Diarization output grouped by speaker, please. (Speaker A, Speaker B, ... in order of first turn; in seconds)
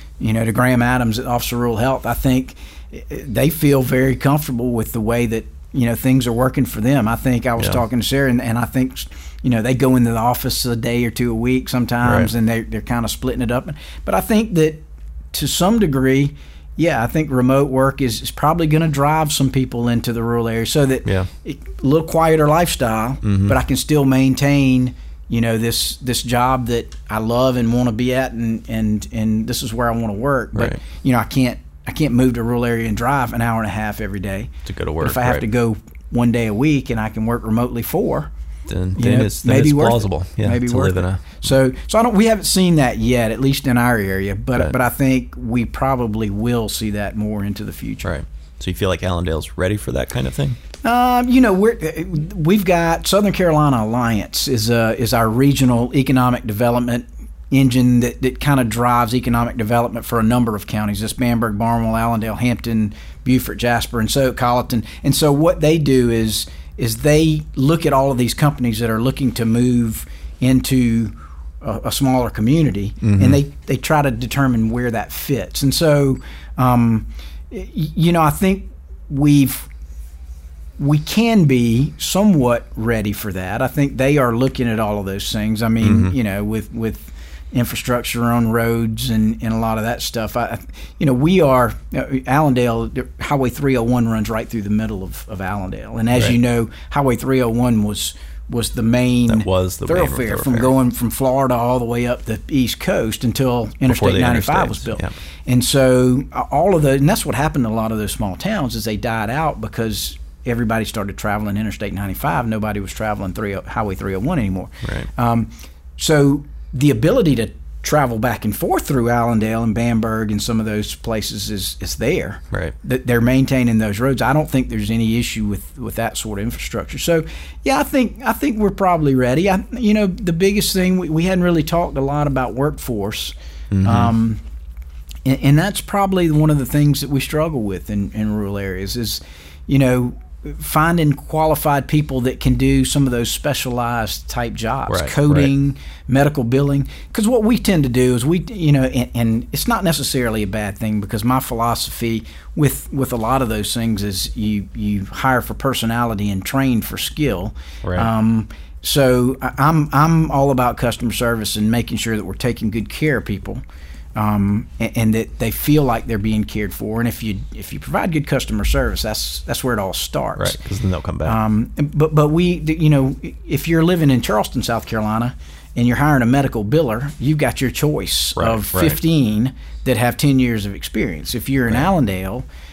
Speaker A: 0.2-38.3, 39.0-48.1, 50.8-79.7, 80.8-134.4, 135.2-163.6, 164.2-170.6, 171.2-182.4
Speaker B: 12.0-12.3, 21.1-21.3, 23.2-23.6, 30.6-30.8, 34.6-35.5, 38.7-41.4, 48.0-50.6, 73.0-73.4, 85.8-86.1, 99.3-100.7, 103.9-105.1, 114.8-115.1, 133.7-134.1, 144.9-145.5, 157.8-158.1, 170.4-171.4, 178.4-179.0